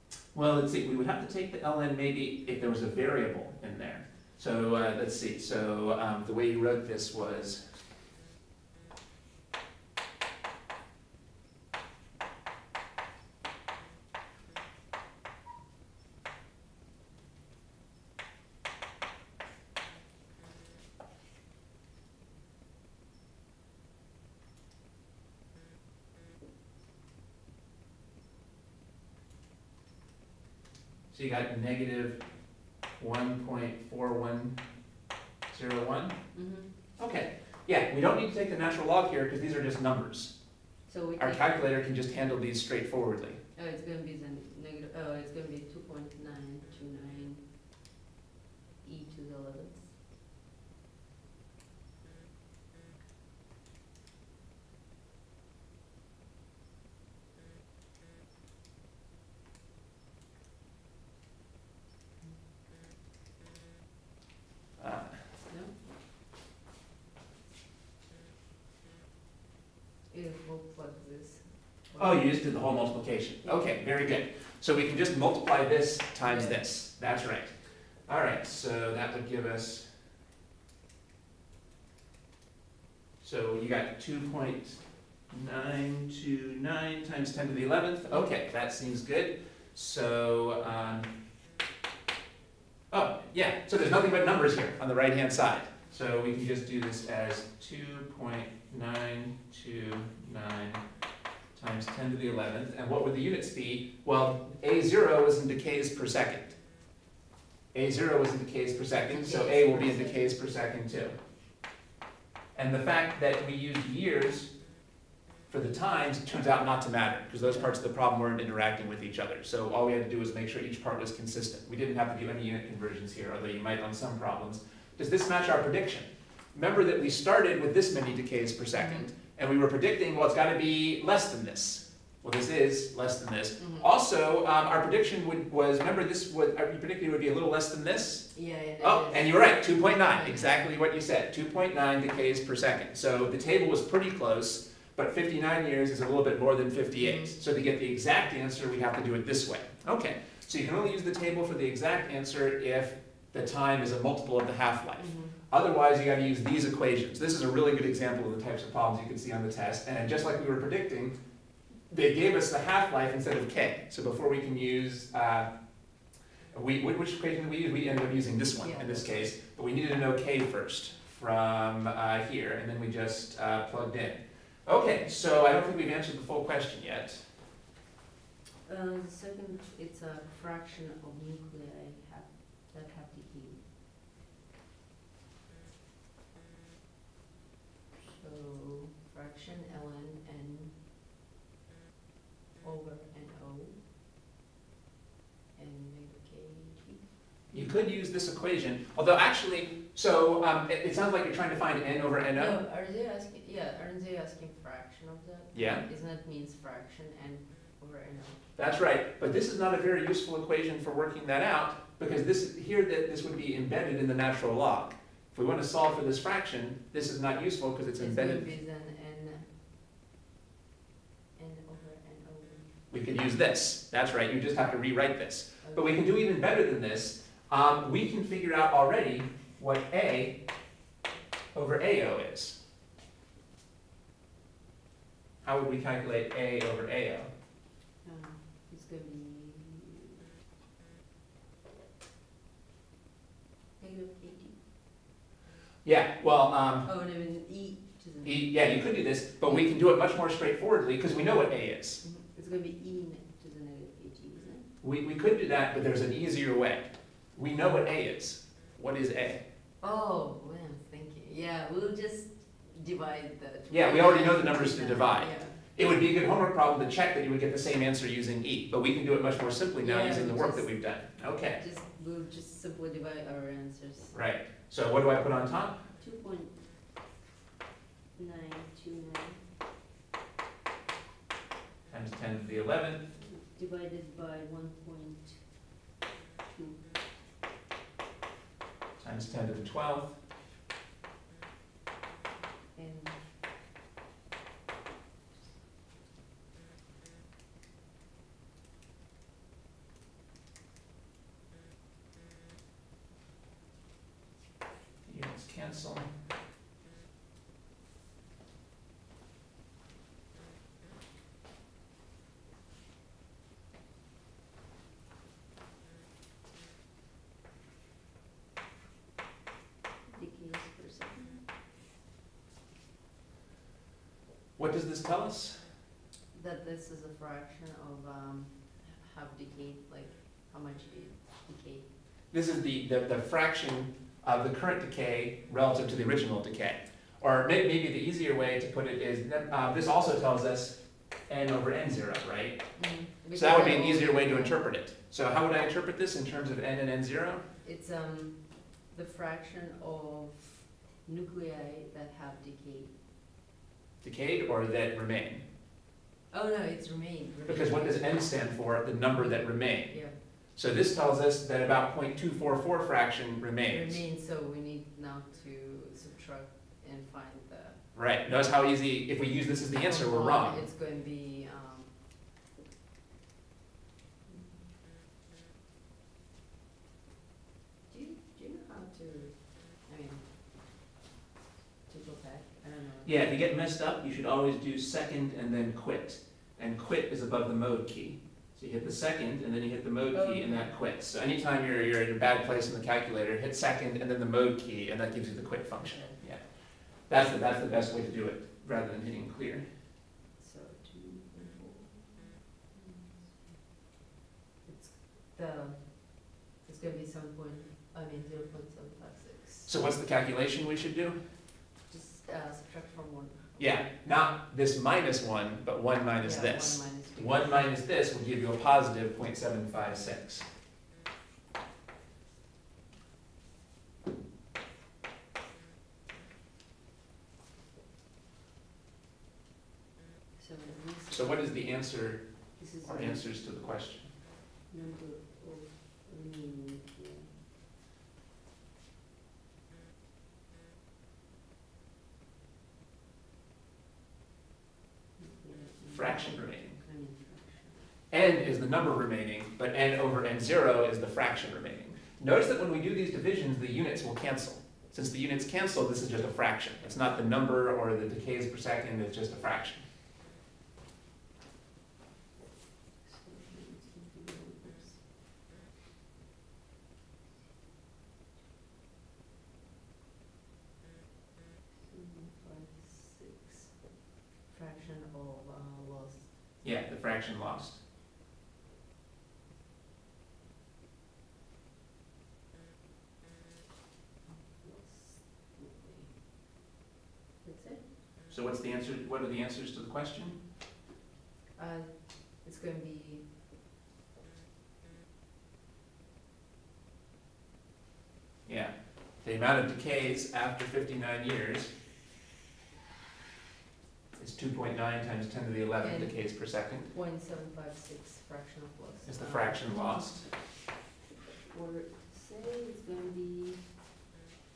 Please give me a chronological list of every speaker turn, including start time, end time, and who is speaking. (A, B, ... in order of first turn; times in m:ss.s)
0:00.3-0:07.6 A
0:31.1-0:32.2 A
0:33.0-0:34.6 A
0:35.5-0:36.2 A
0:36.3-0:36.7 B
0:37.0-0:40.4 A
0:40.8-0:41.6 B
0:41.2-0:43.4 A
0:43.5-0:47.4 B
0:48.8-0:49.9 B
1:04.8-1:05.2 A
1:05.5-1:05.8 B
1:10.1-1:12.4 B
1:12.0-1:17.5 A
1:13.4-1:13.7 B
1:16.2-1:16.6 B
1:18.1-1:19.9 A
1:23.2-1:31.1 A
1:32.9-1:40.8 A
1:41.5-1:46.6 A
1:47.7-1:51.1 A
1:49.1-1:50.4 B
1:52.5-1:54.6 A
1:55.5-2:41.1 A
1:57.4-1:57.8 B
2:08.7-2:09.1 B
2:13.6-2:13.9 B
2:18.3-2:20.6 B
2:27.0-2:27.3 B
2:35.0-2:35.4 B
2:41.9-2:45.5 A
2:46.5-2:57.2 A
2:48.6-2:49.2 B
2:58.6-3:03.6 B
3:08.1-3:10.8 B
3:12.6-3:13.8 B
3:15.5-3:17.1 B
3:17.5-3:22.6 A
3:22.3-3:28.5 B
3:25.5-3:25.8 A
3:28.6-3:38.4 A
3:38.0-3:39.5 B
3:41.4-3:42.8 B
3:42.9-3:50.4 A
3:45.6-3:46.1 B
3:51.5-3:52.6 A
3:55.4-3:57.3 A
3:58.0-4:00.2 B
4:03.8-4:04.6 B
4:05.8-4:06.9 A
4:06.8-4:09.7 B
4:08.2-4:12.0 A
4:12.0-4:14.6 B
4:14.8-4:19.4 A
4:19.8-4:25.6 B
4:23.7-4:31.6 A
4:29.8-4:30.8 B
4:31.6-4:34.2 B
4:34.1-4:35.8 A
4:36.0-4:36.6 B
4:38.2-4:39.4 B
4:41.9-4:43.0 A
4:43.1-4:45.4 B
4:46.5-4:46.9 B
4:49.0-4:50.2 A
4:52.7-4:53.2 B
5:05.0-5:06.1 A
5:20.1-5:21.4 B
5:24.6-5:25.6 A
5:26.3-5:31.9 B
5:32.3-5:42.8 A
5:42.8-5:44.6 B
5:43.3-5:47.4 A
5:47.6-5:53.0 B
5:54.0-5:55.4 A
5:56.3-5:58.6 B
5:57.5-6:04.0 A
5:59.1-6:00.2 B
6:03.7-6:07.8 B
6:07.9-6:10.6 A
6:09.7-6:11.9 B
6:14.2-6:14.7 B
6:17.9-6:20.3 B
6:21.9-6:23.1 B
6:23.0-6:36.4 A
6:30.1-6:30.7 B
6:35.8-6:36.2 B
6:37.1-6:39.6 A
6:40.4-6:43.6 B
6:44.6-6:49.7 B
6:49.6-6:51.2 A
6:51.9-6:53.8 B
6:53.6-7:00.4 A
6:56.2-6:57.7 B
7:10.4-7:11.9 B
7:11.1-7:14.2 A
7:12.6-7:13.3 B
7:14.7-7:17.3 B
7:25.2-7:27.8 B
7:25.9-7:26.8 A
7:28.1-7:39.8 A
7:43.0-7:45.0 B
7:51.8-7:56.4 B
7:56.6-7:57.8 A
8:04.3-8:06.2 B
8:07.4-8:07.9 B
8:08.3-8:10.4 A
8:11.6-8:13.3 B
8:18.4-8:21.7 A
8:24.2-8:26.9 A
8:25.8-8:26.3 B
8:26.9-8:29.9 B
8:29.0-8:30.3 A
8:31.4-8:33.6 B